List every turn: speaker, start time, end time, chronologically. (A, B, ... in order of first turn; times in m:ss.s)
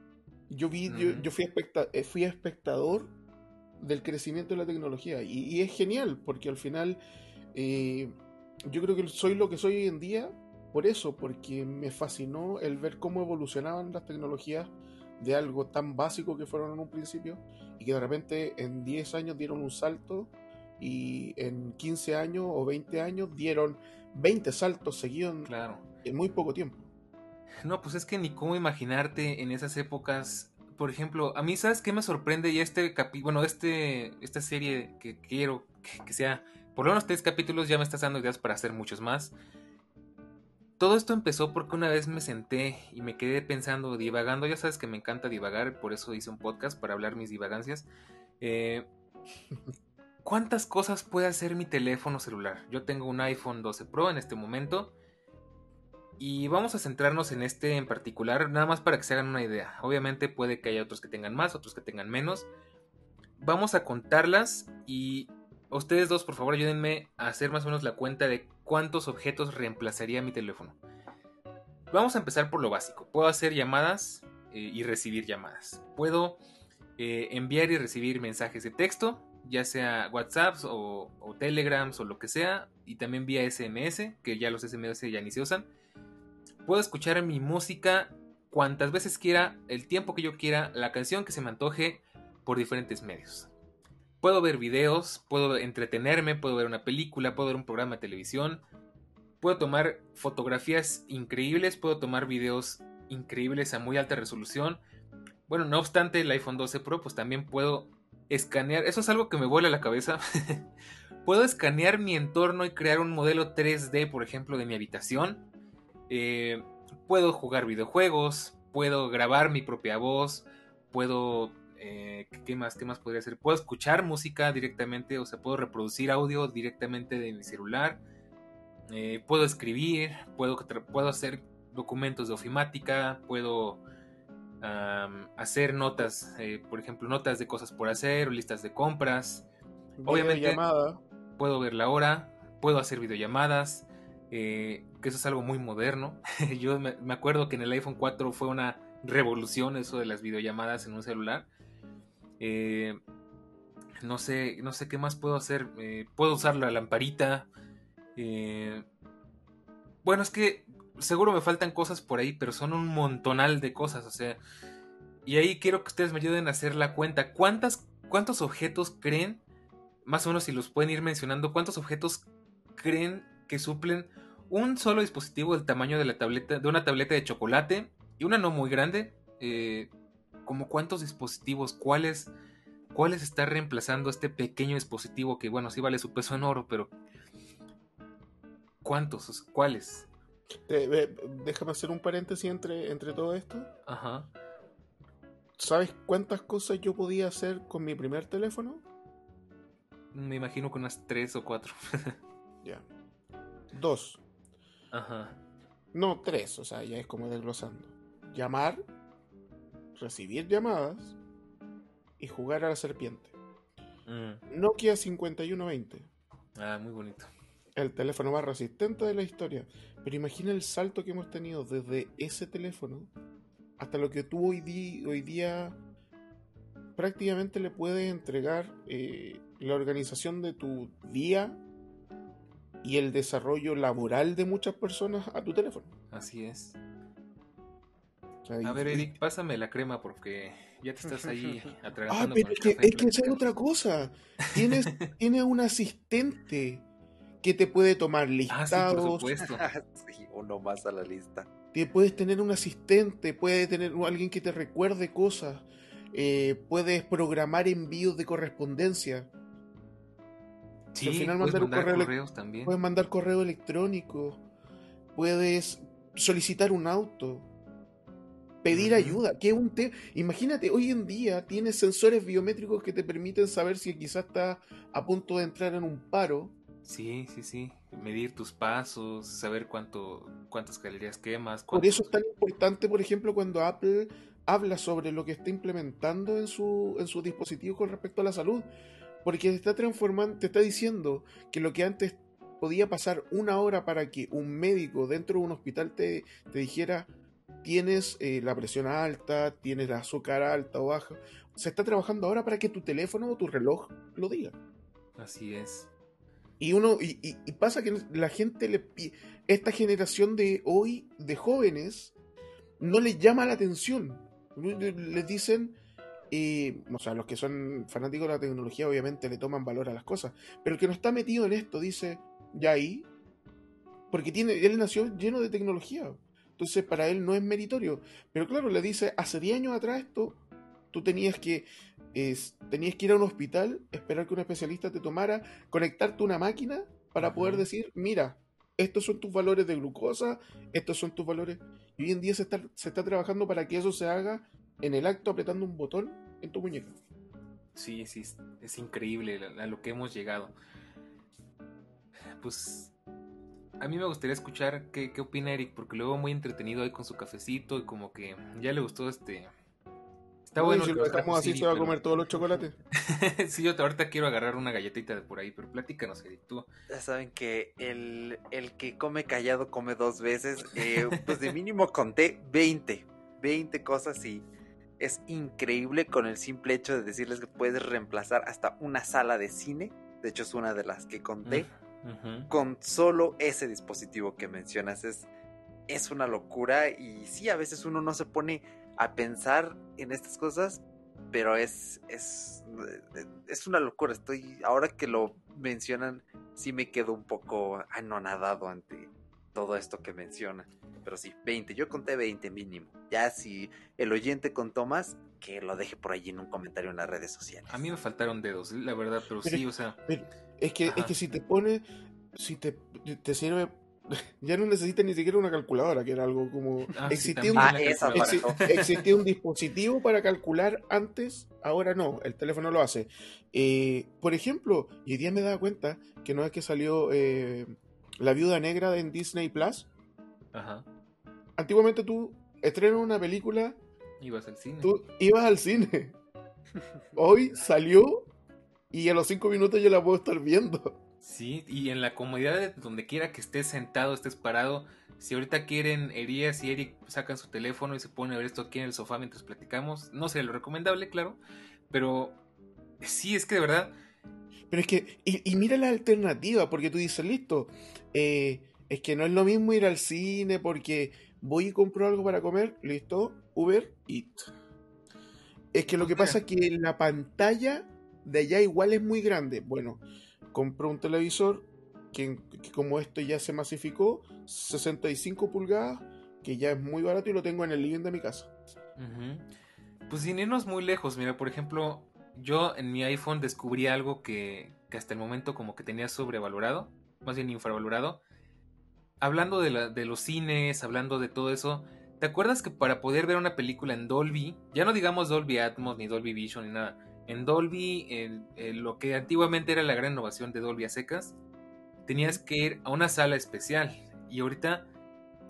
0:00.5-0:03.1 A
0:00.9-0:01.3 B
0:03.8-0:07.0 A
0:07.5-0:08.1 A
0:08.7-0:25.5 A
0:25.4-0:25.8 B
0:26.0-0:26.9 A
0:27.6-0:39.3 B
0:40.8-0:47.9 B
0:48.4-0:48.9 B
0:50.2-0:54.9 B
0:56.2-1:02.5 B
1:03.4-1:10.8 B
1:11.9-1:16.4 B
1:17.0-1:25.7 B
1:26.6-1:33.5 B
1:34.2-1:38.6 B
1:39.4-1:44.8 B
1:45.5-1:50.7 B
1:51.2-1:55.4 B
1:56.1-2:08.0 B
2:08.9-2:13.8 B
2:14.6-2:19.5 B
2:20.0-2:21.0 A
2:20.0-2:20.6 B
2:21.4-2:31.5 B
2:32.4-2:33.0 B
2:34.0-2:37.5 B
2:38.2-2:38.8 B
2:40.0-2:44.4 B
2:45.2-2:49.4 B
2:50.0-2:59.9 B
3:00.4-3:02.3 B
3:02.9-3:06.9 B
3:08.8-3:10.1 B
3:10.7-3:13.7 A
3:13.8-3:14.3 B
3:15.6-3:18.8 A
3:20.1-3:22.2 B
3:23.7-3:24.2 A
3:24.9-3:25.4 B
3:25.9-3:28.8 A
3:29.9-3:31.2 A
3:32.2-3:33.3 A
3:34.1-3:34.4 B
3:34.5-3:36.1 A
3:36.6-3:37.3 B
3:37.8-3:43.1 A
3:43.8-3:45.8 A
3:47.0-3:51.6 A
3:52.8-3:55.9 A
3:56.1-3:56.8 B
3:58.4-3:59.1 A
3:58.6-4:03.4 B
4:02.1-4:06.8 A
4:07.4-4:09.3 A
4:08.5-4:09.6 B
4:09.4-4:11.5 C
4:11.7-4:19.3 A
4:20.9-4:22.8 B
4:21.0-4:22.1 A
4:22.6-4:24.4 A
4:25.1-4:27.5 A
4:28.6-4:36.6 A
4:28.7-4:29.2 B
4:36.8-4:42.1 B
4:41.7-4:48.7 A
4:49.2-4:57.1 A
4:57.6-5:04.6 A
5:05.2-5:05.9 B
5:06.6-5:12.1 A
5:12.8-5:15.8 A
5:16.3-5:23.1 A
5:24.1-5:47.0 A
5:37.2-5:37.6 B
5:47.7-5:50.5 B
5:52.4-5:52.9 B
5:53.8-5:59.5 B
6:00.4-6:02.0 B
6:00.6-6:02.8 A
6:02.9-6:06.7 B
6:06.9-6:14.4 C
6:10.8-6:11.3 B
6:15.0-6:21.7 C
6:21.4-6:22.5 B
6:22.5-6:25.3 C
6:25.9-6:47.8 C
6:47.7-6:50.0 B
6:49.4-7:09.9 A
6:50.8-6:51.2 B
6:57.0-6:59.0 B
6:57.6-6:58.7 C
7:10.5-7:10.8 B
7:11.6-7:13.8 A
7:14.2-7:14.9 B
7:14.8-7:16.2 A
7:17.1-7:18.3 A
7:18.9-7:21.0 A
7:21.2-7:31.4 B
7:31.9-7:32.4 B
7:33.0-7:33.9 B
7:34.7-7:44.4 A
7:45.7-7:58.5 A
7:45.9-7:46.4 B
7:59.0-7:59.5 B
8:00.1-8:08.2 B
8:09.2-8:21.4 B
8:22.0-8:24.9 B
8:22.2-8:22.4 A